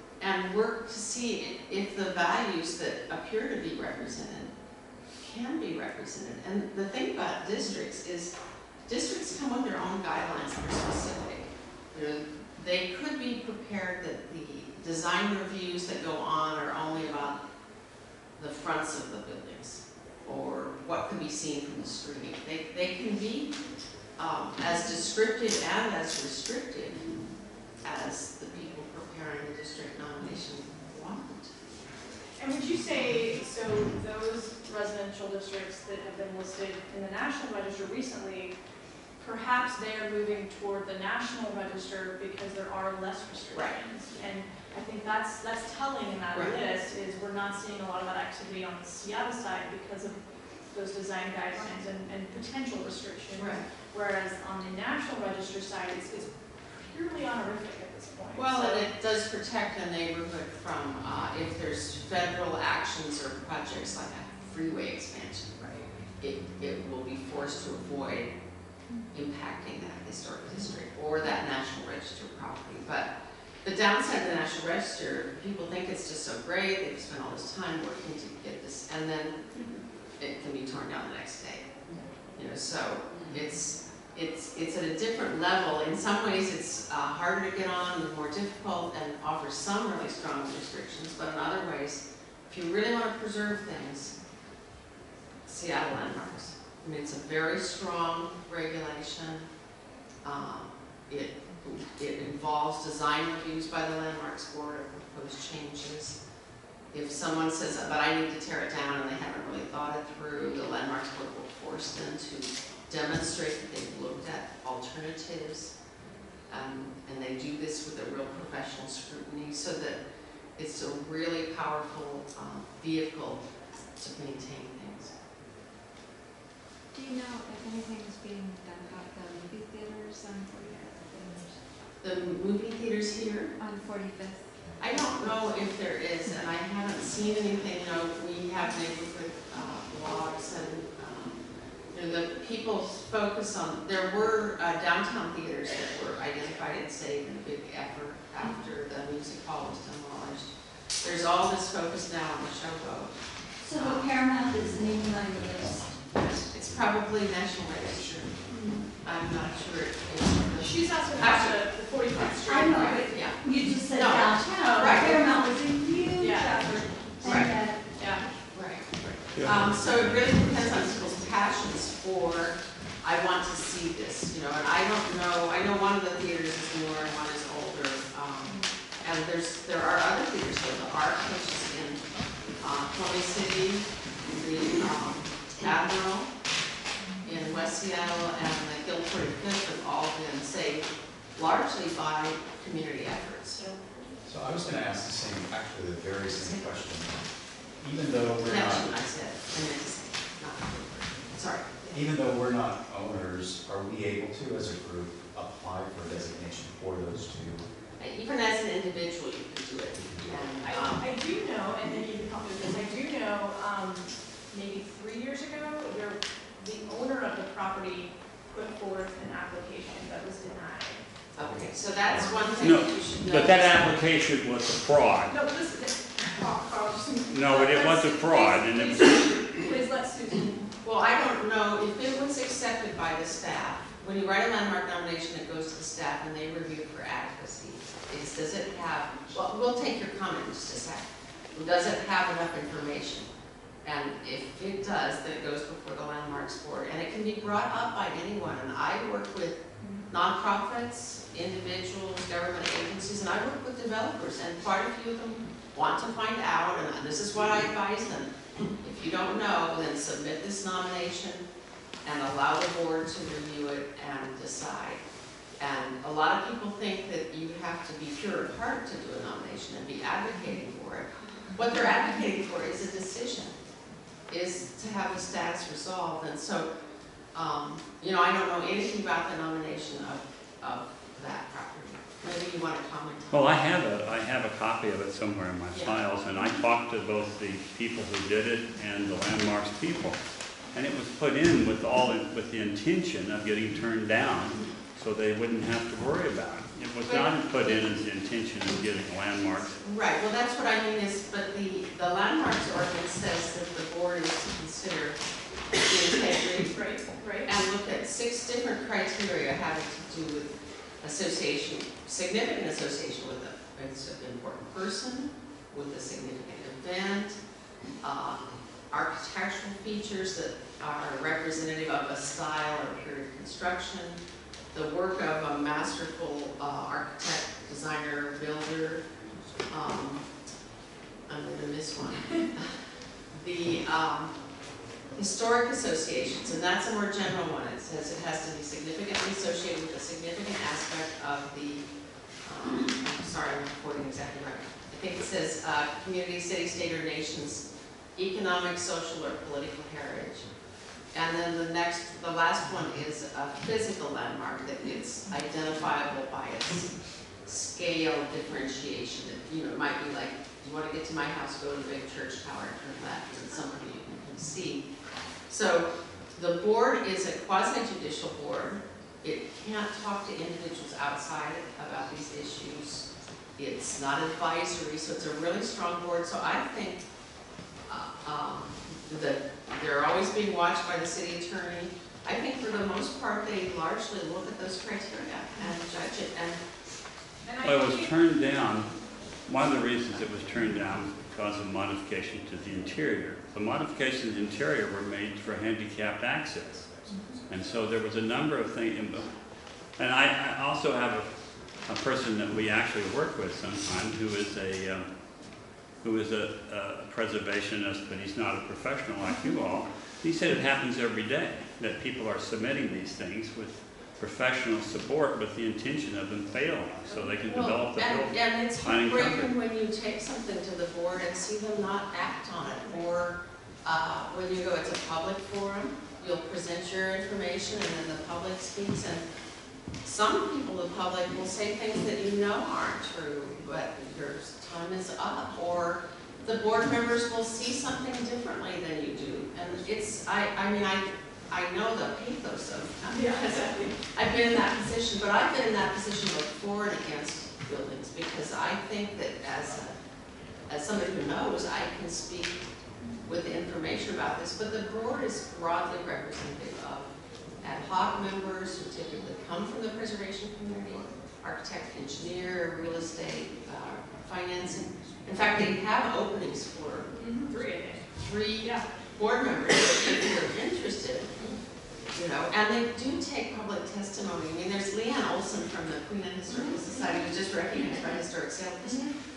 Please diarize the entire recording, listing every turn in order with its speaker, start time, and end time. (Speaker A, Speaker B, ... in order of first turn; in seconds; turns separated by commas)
Speaker A: 0.2-4.5, Speaker A: 5.2-8.3, Speaker A: 8.9-17.4, Speaker A: 18.4-23.6, Speaker A: 24.2-27.1, Speaker A: 27.8-31.5, Speaker B: 32.4-38.5, Speaker B: 39.2-50.2, Speaker B: 50.7-58.9, Speaker A: 53.3-53.6, Speaker A: 58.3-65.5, Speaker A: 66.2-68.3, Speaker A: 69.1-73.1, Speaker A: 73.6-79.5, Speaker A: 80.2-81.8, Speaker A: 82.3-94.1, Speaker A: 95.5-99.5, Speaker A: 100.2-106.2, Speaker A: 106.9-115.7, Speaker A: 116.5-120.0, Speaker A: 120.5-123.4, Speaker A: 124.0-125.1, Speaker C: 126.9-131.6, Speaker A: 132.0-133.5, Speaker C: 133.6-135.5, Speaker A: 134.8-141.4, Speaker A: 141.9-150.5, Speaker A: 151.0-153.1, Speaker D: 153.6-156.0, Speaker A: 153.7-154.1, Speaker A: 156.2-158.4, Speaker D: 158.6-158.8, Speaker A: 159.0-161.6, Speaker B: 160.6-163.1, Speaker D: 162.4-167.8, Speaker A: 162.9-165.3, Speaker B: 166.2-167.3, Speaker A: 167.2-167.5, Speaker B: 168.0-168.2, Speaker A: 168.5-182.0, Speaker E: 169.4-169.7, Speaker A: 182.6-186.3, Speaker A: 187.2-193.6, Speaker E: 194.2-197.3, Speaker A: 196.4-196.7, Speaker E: 197.8-198.9, Speaker A: 198.4-202.1, Speaker E: 201.9-207.7, Speaker A: 208.0-211.0, Speaker B: 210.6-221.0, Speaker A: 221.3-224.1, Speaker F: 222.6-225.3, Speaker B: 225.3-230.6, Speaker F: 227.3-229.2, Speaker A: 230.8-243.3, Speaker A: 243.8-261.4, Speaker A: 262.0-265.0, Speaker A: 265.6-273.5, Speaker A: 274.3-276.7, Speaker A: 277.3-283.6, Speaker F: 283.3-290.2, Speaker A: 285.7-286.0, Speaker F: 290.7-299.7, Speaker A: 297.0-298.0, Speaker A: 299.8-305.2, Speaker A: 305.7-306.8, Speaker B: 306.7-307.5, Speaker A: 307.4-317.4, Speaker A: 318.0-324.2, Speaker A: 324.7-329.0, Speaker A: 329.7-330.2, Speaker A: 331.3-332.7, Speaker A: 333.3-334.3, Speaker A: 335.1-341.9, Speaker A: 342.4-347.6, Speaker A: 348.1-350.5, Speaker A: 351.1-356.9, Speaker A: 357.4-364.9, Speaker A: 365.5-377.0, Speaker A: 377.9-386.6, Speaker B: 387.4-388.1, Speaker F: 387.6-388.9, Speaker F: 389.5-399.3, Speaker F: 400.0-401.3, Speaker F: 401.8-405.1, Speaker F: 406.0-419.5, Speaker A: 417.1-429.2, Speaker A: 430.0-450.0, Speaker B: 443.1-443.9, Speaker A: 450.7-452.6, Speaker A: 453.2-457.1, Speaker A: 457.6-467.1, Speaker B: 467.2-468.0, Speaker A: 468.2-471.6, Speaker B: 468.6-468.9, Speaker A: 472.1-479.1, Speaker B: 478.9-479.1